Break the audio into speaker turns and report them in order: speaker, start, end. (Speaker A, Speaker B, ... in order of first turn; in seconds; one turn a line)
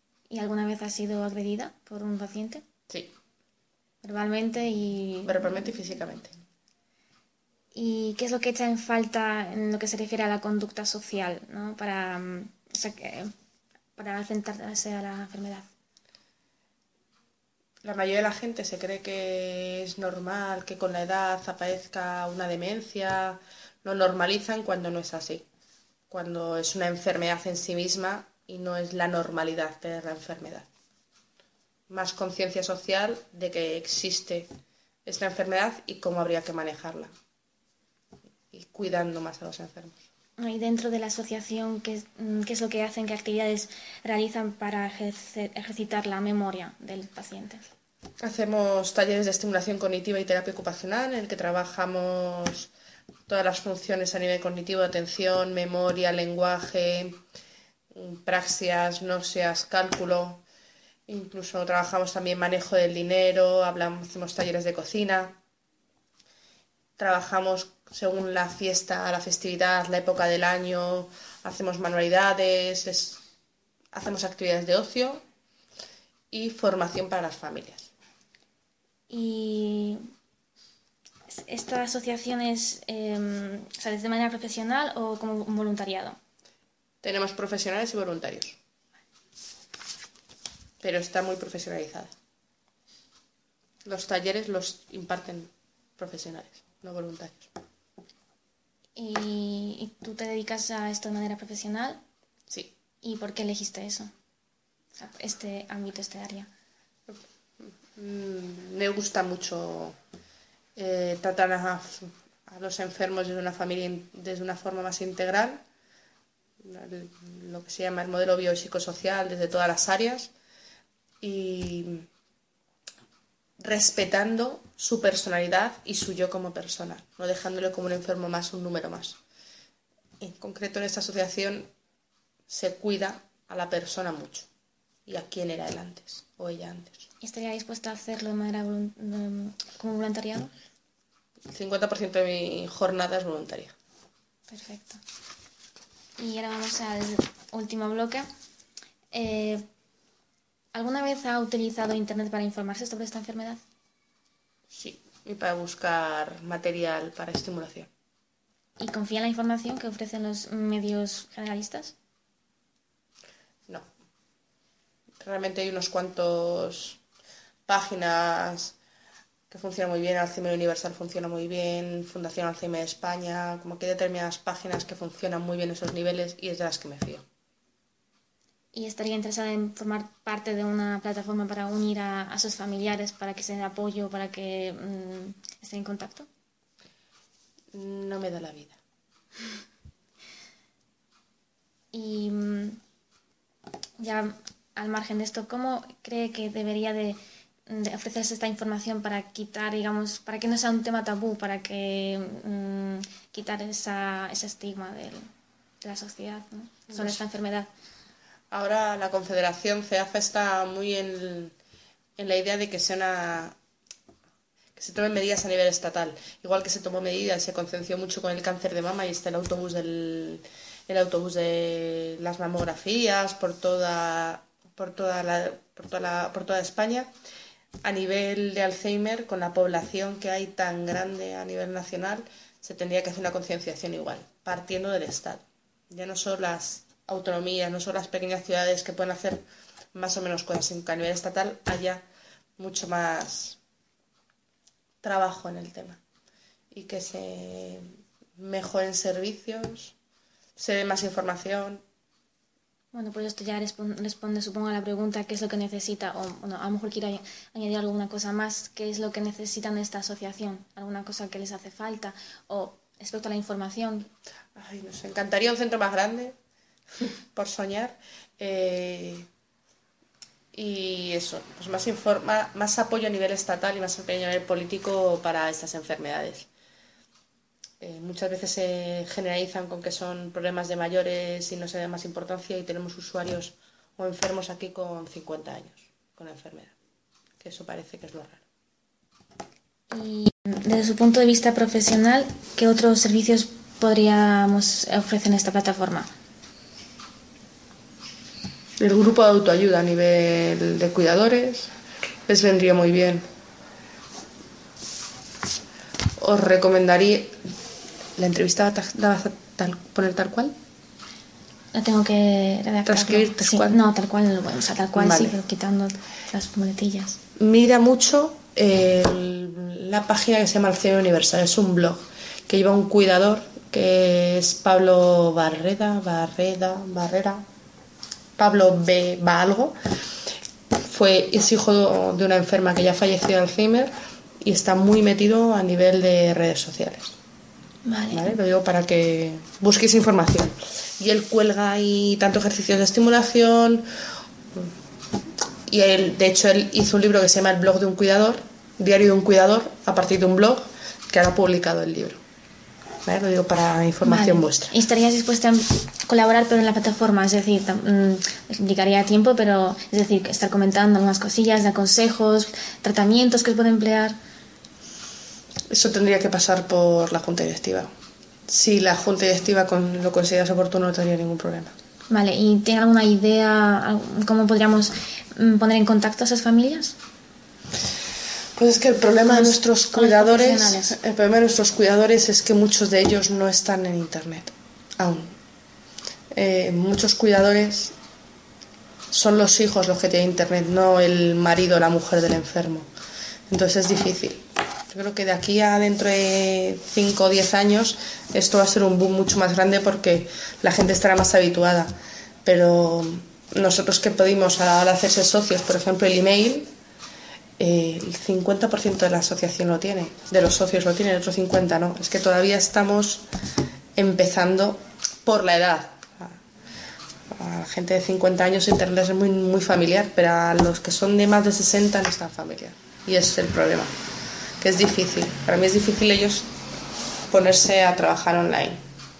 Speaker A: 0.3-2.6
Speaker B: 2.9-3.1
Speaker A: 4.0-5.7
Speaker B: 5.2-6.3
Speaker A: 7.7-13.3
Speaker A: 13.9-15.7
Speaker B: 17.8-25.5
Speaker B: 26.1-30.7
Speaker B: 31.9-34.5
Speaker B: 35.0-37.1
Speaker B: 38.5-40.0
Speaker A: 40.4-47.6
Speaker B: 48.2-52.7
Speaker B: 53.3-57.2
Speaker B: 57.9-60.4
Speaker B: 61.1-65.4
Speaker B: 67.0-73.2
Speaker B: 73.9-75.2
Speaker B: 76.3-77.9
Speaker A: 79.1-80.0
Speaker A: 81.3-86.2
Speaker B: 87.0-88.6
Speaker B: 90.8-92.1
Speaker B: 93.8-97.5
Speaker A: 99.0-102.0
Speaker B: 102.5-102.7
Speaker A: 103.0-104.1
Speaker A: 104.9-106.5
Speaker B: 107.1-110.0
Speaker B: 110.8-115.6
Speaker B: 116.6-120.3
Speaker B: 121.2-122.1
Speaker B: 123.6-129.2
Speaker B: 130.2-131.7
Speaker B: 132.5-134.5
Speaker B: 135.1-137.1
Speaker A: 137.2-140.5
Speaker B: 141.5-143.7
Speaker A: 144.5-145.0
Speaker A: 146.2-148.3
Speaker A: 149.1-149.6
Speaker A: 150.7-153.6
Speaker B: 154.7-157.9
Speaker A: 158.8-161.9
Speaker B: 165.2-167.0
Speaker B: 167.7-168.8
Speaker B: 169.5-177.2
Speaker A: 178.7-186.3
Speaker B: 187.7-188.8
Speaker A: 191.9-192.8
Speaker A: 194.0-205.3
Speaker A: 205.8-207.7
Speaker B: 206.9-207.2
Speaker B: 208.5-211.5
Speaker B: 212.2-213.6
Speaker B: 214.8-227.1
Speaker B: 227.8-242.0
Speaker B: 242.6-243.6
Speaker B: 245.0-246.0
Speaker B: 246.7-249.9
Speaker B: 250.6-251.8
Speaker A: 252.9-264.1
Speaker B: 264.6-266.4
Speaker B: 267.0-269.3
Speaker B: 270.5-276.5
Speaker B: 277.8-286.7
Speaker B: 287.4-288.4
Speaker A: 289.9-296.1
Speaker B: 298.8-301.7
Speaker B: 302.3-303.2
Speaker B: 306.2-307.4
Speaker B: 308.1-310.5
Speaker A: 311.7-317.2
Speaker B: 312.9-313.8
Speaker B: 314.9-315.4
Speaker B: 317.4-327.4
Speaker B: 328.4-329.8
Speaker B: 330.9-337.1
Speaker A: 337.8-338.3
Speaker B: 338.1-343.8
Speaker B: 345.7-352.2
Speaker B: 353.0-354.7
Speaker A: 354.0-364.1
Speaker B: 365.7-367.9
Speaker B: 368.5-371.7
Speaker A: 372.1-376.9
Speaker B: 378.6-385.4
Speaker A: 379.2-380.9
Speaker B: 386.3-387.9
Speaker B: 389.1-392.9
Speaker B: 393.5-401.9
Speaker B: 402.4-406.7
Speaker B: 407.6-413.2
Speaker B: 413.9-416.4
Speaker B: 417.3-423.9
Speaker B: 424.6-426.5
Speaker B: 427.3-428.8